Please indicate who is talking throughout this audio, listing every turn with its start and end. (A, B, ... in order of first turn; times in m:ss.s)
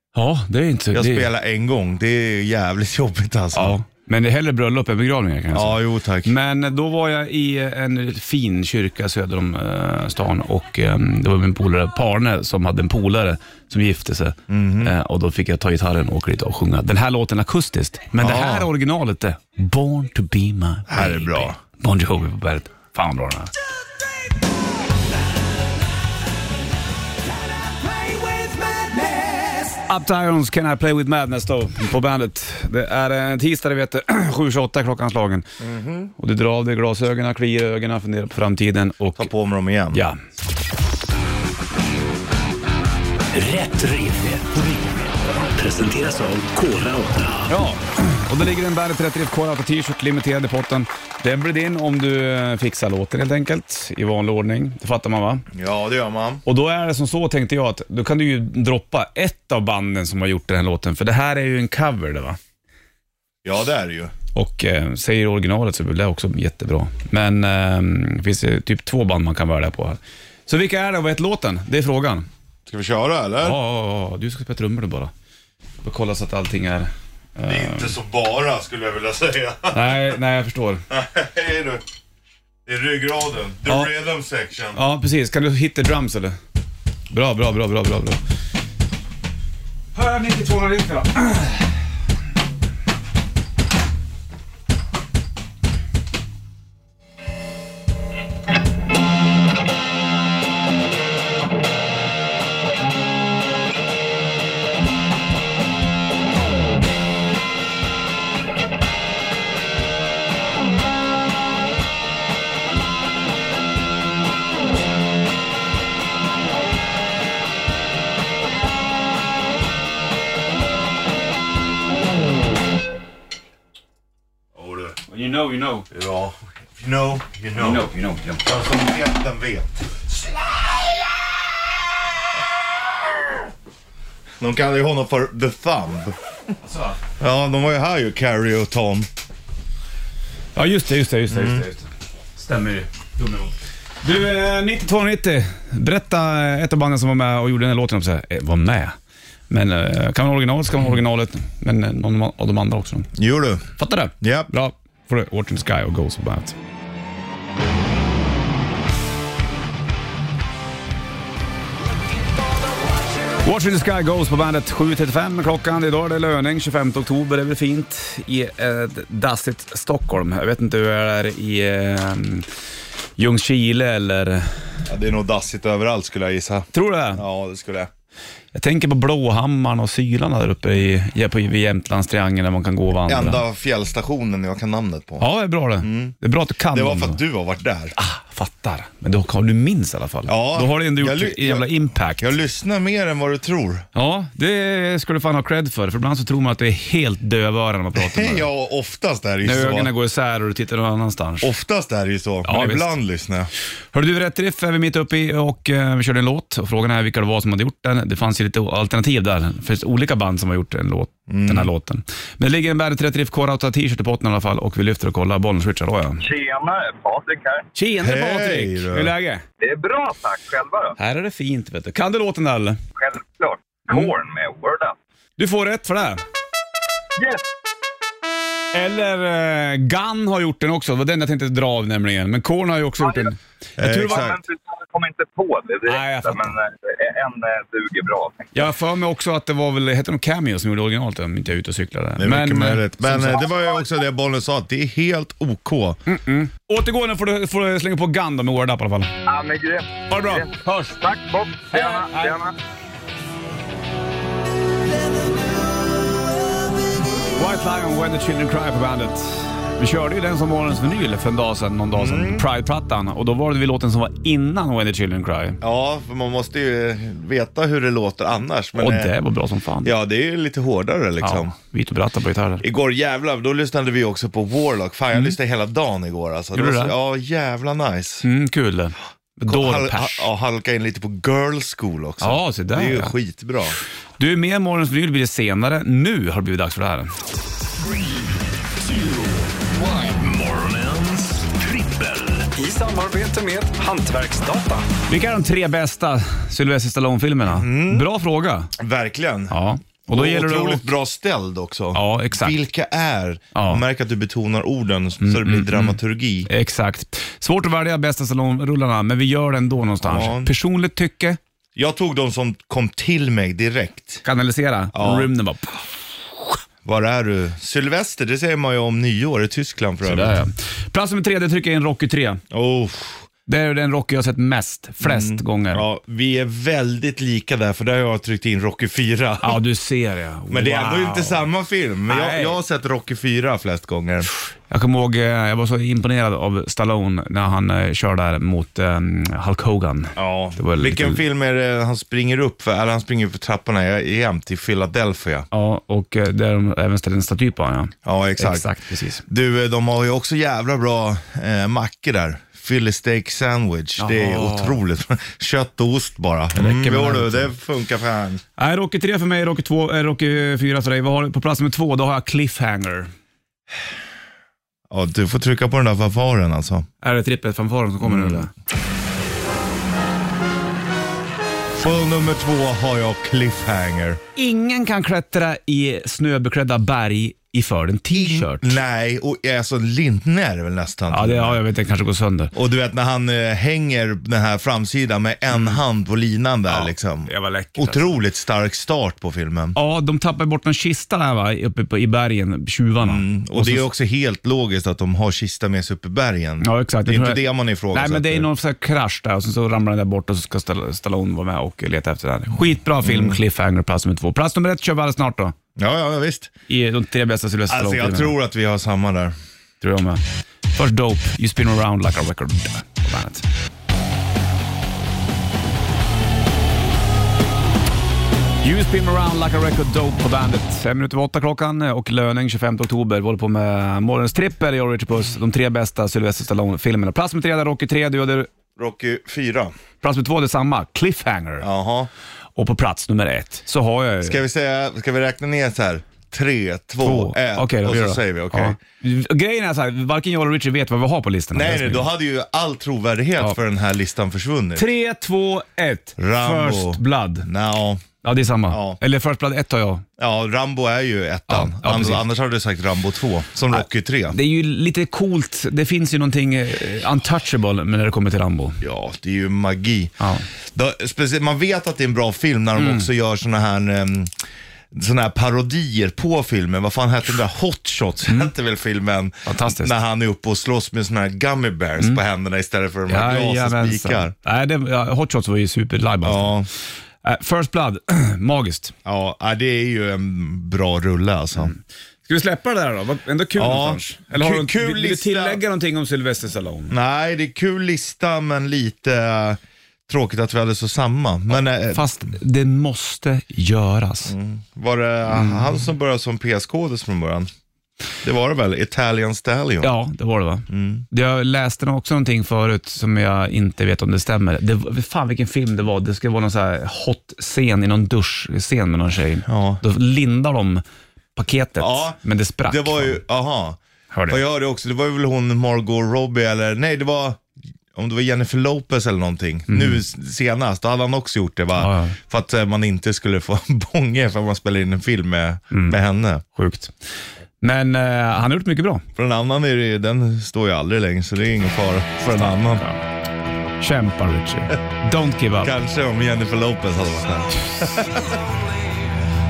0:00.1-0:01.3 A
0:00.9-0:03.8 B
0:03.5-0:23.5 A
0:05.5-0:06.3 B
0:14.5-0:14.9 B
0:18.2-0:18.7 B
0:20.9-0:21.6 B
0:28.1-0:29.7 C
0:29.9-0:35.5 A
0:35.6-0:36.1 B
0:36.2-0:39.3 A
0:39.2-0:40.0 B
0:39.9-0:40.2 A
0:43.3-0:47.5 C
0:47.5-0:55.4 A
0:55.5-0:56.4 B
0:56.4-1:02.4 A
1:03.4-1:04.1 B
1:04.3-1:12.3 A
1:12.7-1:13.6 B
1:13.4-1:15.1 A
1:15.8-1:17.9 A
1:17.4-1:20.0 B
1:19.7-1:20.8 A
1:20.9-1:21.8 B
1:22.7-1:24.8 B
1:23.7-1:23.9 A
1:24.7-1:26.4 A
1:27.1-1:28.2 A
1:29.9-1:31.7 A
2:04.6-2:05.0 B
2:05.0-2:05.9 A
2:05.9-2:07.9 B
2:07.6-2:08.5 A
2:08.4-2:10.0 B
2:14.4-2:16.2 B
2:16.6-2:17.0 A
2:17.2-2:19.1 B
2:20.6-2:29.0 A
2:21.3-2:21.6 B
2:29.5-2:33.1 A
2:33.2-2:33.7 B
2:33.8-2:36.6 A
2:34.2-2:34.5 B
2:43.4-2:52.5 A
2:53.2-2:54.5 A
2:54.9-2:57.9 B
2:56.7-2:57.2 A
2:58.5-3:03.4 A
3:03.1-3:05.3 B
3:05.2-3:07.2 A
3:05.8-3:06.2 B
3:06.7-3:08.0 B
3:08.0-3:12.3 A
3:10.3-3:13.8 B
3:14.0-3:18.5 A
3:18.0-3:19.9 B
3:19.4-3:21.5 A
3:21.4-3:23.5 B
3:22.4-3:22.9 A
3:23.9-3:36.2 A
3:31.3-3:31.7 B
3:36.2-3:37.7 D
3:37.8-3:39.4 A
3:38.0-3:39.1 B
3:39.6-3:41.0 D
3:41.0-3:42.8 A
3:43.0-3:45.0 D
3:45.4-3:46.2 A
3:47.2-3:47.5 D
3:48.7-3:54.2 A
3:53.0-3:53.3 D
3:53.8-3:54.4 B
3:53.9-3:58.6 D
3:55.9-3:56.6 A
3:58.5-4:03.4 A
4:02.2-4:06.0 B
4:06.1-4:09.1 A
4:09.3-4:12.5 D
4:10.1-4:11.0 A
4:11.7-4:12.4 A
4:17.4-4:25.6 A
4:21.9-4:22.5 B
4:25.6-4:29.1 B
4:28.8-4:29.9 A
4:29.8-4:31.5 B
4:31.2-4:32.6 A
4:32.6-4:38.3 B
4:36.5-4:37.0 A
4:38.2-4:40.3 A
4:39.5-4:43.8 B
4:42.2-4:43.1 A
4:44.2-4:47.1 A
4:47.8-4:48.2 C
4:48.8-4:52.5 C
4:52.6-4:58.7 A
4:57.5-4:58.1 B
4:58.8-4:59.6 B
4:59.5-5:00.9 A
5:00.1-5:06.5 B
5:01.9-5:02.6 A
5:03.6-5:03.8 A
5:05.2-5:06.0 A
5:06.5-5:11.4 A
5:10.0-5:10.5 B
5:11.8-5:14.2 B
5:14.2-5:15.8 A
5:14.9-5:15.3 B
5:16.8-5:20.4 B
5:20.0-5:22.4 A
5:22.5-5:23.3 B
5:23.5-5:25.8 A
5:25.0-5:29.6 B
5:29.4-5:31.5 A
5:30.5-5:34.3 B
5:32.1-5:32.6 A
5:34.7-5:41.2 A
5:40.2-5:45.5 B
5:45.5-5:49.2 A
5:48.0-5:48.7 B
5:49.2-5:58.4 B
5:54.0-5:54.8 A
5:56.6-5:57.5 A
5:58.6-6:03.1 A
6:04.9-6:06.9 B
6:07.0-6:08.5 A
6:08.0-6:08.5 B
6:11.8-6:14.2 B
6:14.4-6:18.8 A
6:18.1-6:21.6 B
6:21.1-6:22.5 A
6:22.5-6:29.8 B
6:25.5-6:25.8 A
6:26.7-6:28.1 A
6:29.8-6:33.9 A
6:33.0-6:38.5 B
6:36.6-6:45.6 A
6:43.0-6:43.4 B
6:45.8-6:46.5 B
6:46.7-6:48.4 A
6:47.7-6:49.4 B
6:49.8-6:50.2 A
6:50.8-6:53.4 A
6:58.6-7:08.5 A
7:08.8-7:09.7 B
7:10.0-7:11.7 A
7:11.6-7:12.1 B
7:12.6-7:14.4 A
7:14.2-7:18.8 B
7:17.0-7:22.1 A
7:21.5-7:24.9 B
7:24.8-7:27.5 A
7:26.2-7:28.0 B
7:28.2-7:30.0 A
7:28.7-7:29.0 B
7:30.2-7:34.4 B
7:31.5-7:32.2 A
7:33.7-7:38.8 A
7:38.8-7:40.2 B
7:40.2-7:40.4 A
7:40.7-7:44.3 B
7:42.8-7:43.1 A
7:44.9-7:54.3 B
7:49.5-7:49.9 A
7:53.1-7:56.5 A
7:56.2-7:56.7 B
7:57.2-7:58.9 A
7:59.0-8:01.7 B
8:01.6-8:06.9 A
8:03.6-8:05.6 B
8:06.9-8:12.1 B
8:11.9-8:14.4 A
8:14.3-8:17.5 B
8:15.3-8:15.7 A
8:18.2-8:19.9 B
8:19.8-8:30.8 A
8:20.7-8:21.0 B
8:29.5-8:29.8 B
8:31.4-8:33.2 A
8:31.8-8:37.4 B
8:34.1-8:34.4 A
8:37.9-8:46.4 B
8:39.7-8:40.0 A
8:41.8-8:42.2 A
8:45.7-8:46.0 A
8:46.5-8:46.9 A
8:47.6-8:49.0 A
8:49.2-8:52.8 B
8:52.4-8:53.0 A
8:53.8-8:55.7 A
8:55.6-8:58.2 B